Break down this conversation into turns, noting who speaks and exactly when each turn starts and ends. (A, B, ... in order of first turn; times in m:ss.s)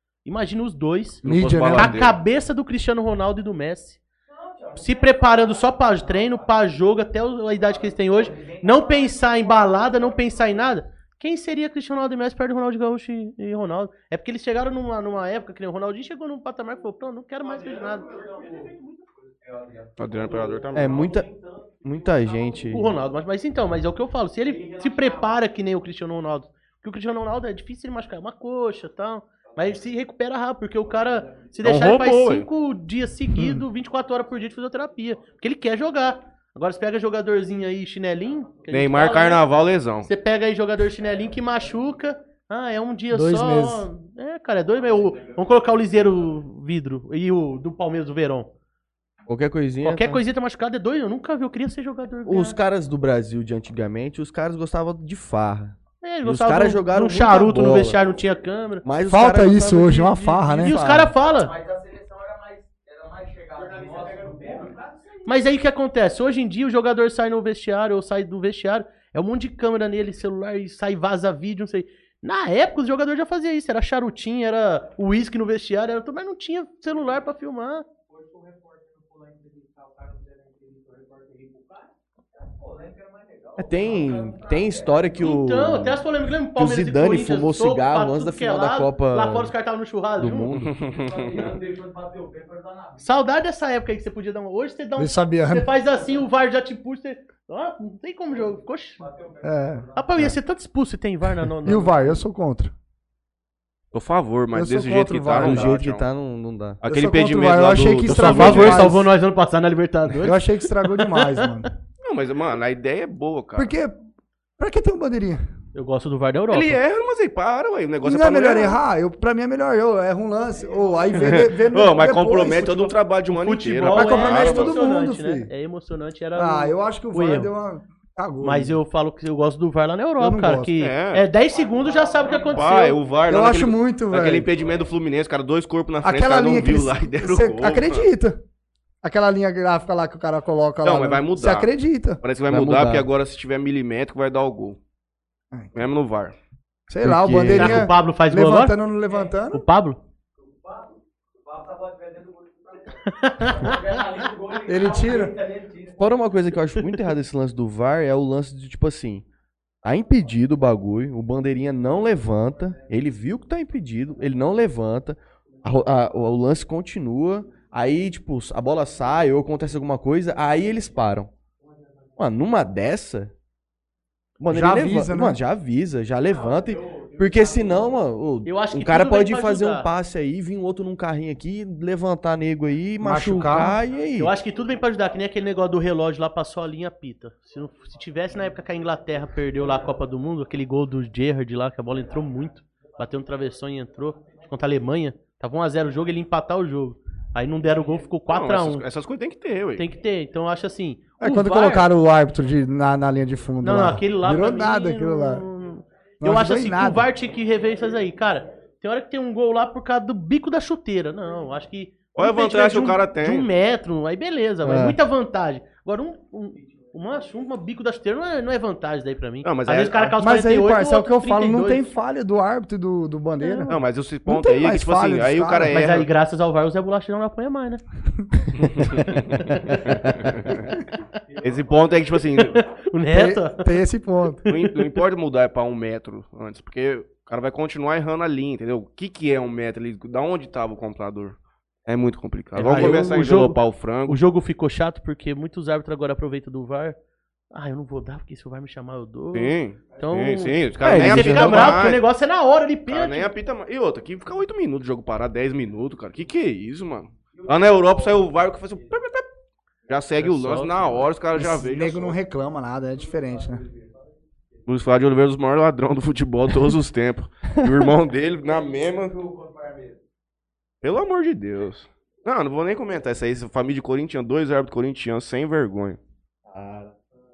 0:00.2-0:01.2 A
0:01.2-0:02.2 B
0:01.2-0:01.9 C
0:01.7-0:04.0 A
0:04.8-0:18.6 A
0:20.0-0:21.1 B
0:20.7-0:21.3 D
0:21.8-0:22.9 D
0:22.7-0:39.4 A
0:31.6-0:32.5 B
0:33.3-0:33.6 C
0:38.7-0:40.1 B
0:40.0-0:48.5 A
0:43.1-0:43.9 C
0:49.3-0:50.2 D
0:49.8-0:52.6 A
0:52.2-0:58.0 D
0:56.0-0:58.8 A
0:58.8-1:00.0 D
0:59.0-1:01.1 C
0:59.4-1:01.5 A
1:00.6-1:01.1 D
1:01.7-1:02.4 E
1:03.0-1:04.2 E
1:05.2-1:17.8 A
1:23.6-1:26.0 D
1:25.2-1:30.6 A
1:26.6-1:29.5 D
1:30.2-1:30.8 D
1:30.6-1:31.6 B
1:33.0-1:39.1 A
1:35.0-1:35.7 C
1:39.4-1:40.3 C
1:40.0-1:42.2 A
1:41.6-1:42.7 C
1:43.9-1:46.0 B
1:44.5-1:45.7 C
1:45.3-1:46.8 D
1:46.8-1:48.9 B
1:46.8-1:49.1 C
1:48.1-1:51.7 A
1:50.2-1:51.7 C
1:52.0-1:53.7 B
1:53.6-1:54.0 C
1:54.6-1:55.4 C
1:55.7-1:56.8 A
1:56.5-1:58.8 B
1:58.0-2:02.9 C
2:01.1-2:04.8 B
2:03.4-2:07.5 A
2:03.9-2:05.5 C
2:06.4-2:08.8 C
2:08.4-2:13.0 A
2:10.2-2:10.7 C
2:10.8-2:11.3 B
2:12.4-2:18.1 B
2:13.3-2:14.5 C
2:16.0-2:18.4 C
2:19.0-2:22.2 C
2:20.8-2:24.8 B
2:22.5-2:23.1 D
2:25.5-2:25.8 C
2:25.7-2:26.3 B
2:26.9-2:29.6 C
2:27.0-2:27.9 D
2:27.5-2:28.8 A
2:29.5-2:30.0 A
2:33.0-2:34.0 A
2:34.5-2:35.4 C
2:35.9-2:39.2 D
2:39.8-2:51.3 D
2:52.2-2:53.3 D
2:54.4-3:04.3 D
2:54.5-2:55.4 C
2:58.4-2:59.9 A
3:03.0-3:03.8 C
3:04.1-3:18.8 A
3:18.3-3:19.8 B
3:19.8-3:21.9 A
3:21.2-3:25.4 C
3:23.6-3:41.8 A
3:26.2-3:27.1 C
3:32.2-3:33.5 B
3:34.6-3:35.0 D
3:39.4-3:40.1 B
3:40.2-3:45.8 C
3:43.4-3:43.7 A
3:43.7-3:46.1 B
3:45.7-3:47.8 A
3:48.5-3:50.8 B
3:49.5-3:50.2 A
3:51.4-3:52.6 B
3:52.3-3:53.8 A
3:53.1-3:54.4 C
3:54.4-3:54.9 A
3:54.5-4:04.2 B
4:02.6-4:07.0 A
4:02.6-4:03.1 C
4:07.5-4:13.3 A
4:09.3-4:12.0 B
4:10.8-4:11.9 D
4:12.9-4:19.2 B
4:19.9-4:22.2 B
4:20.2-4:21.1 A
4:21.3-4:23.6 C
4:24.6-4:29.2 B
4:30.8-4:36.0 B
4:36.6-4:36.8 D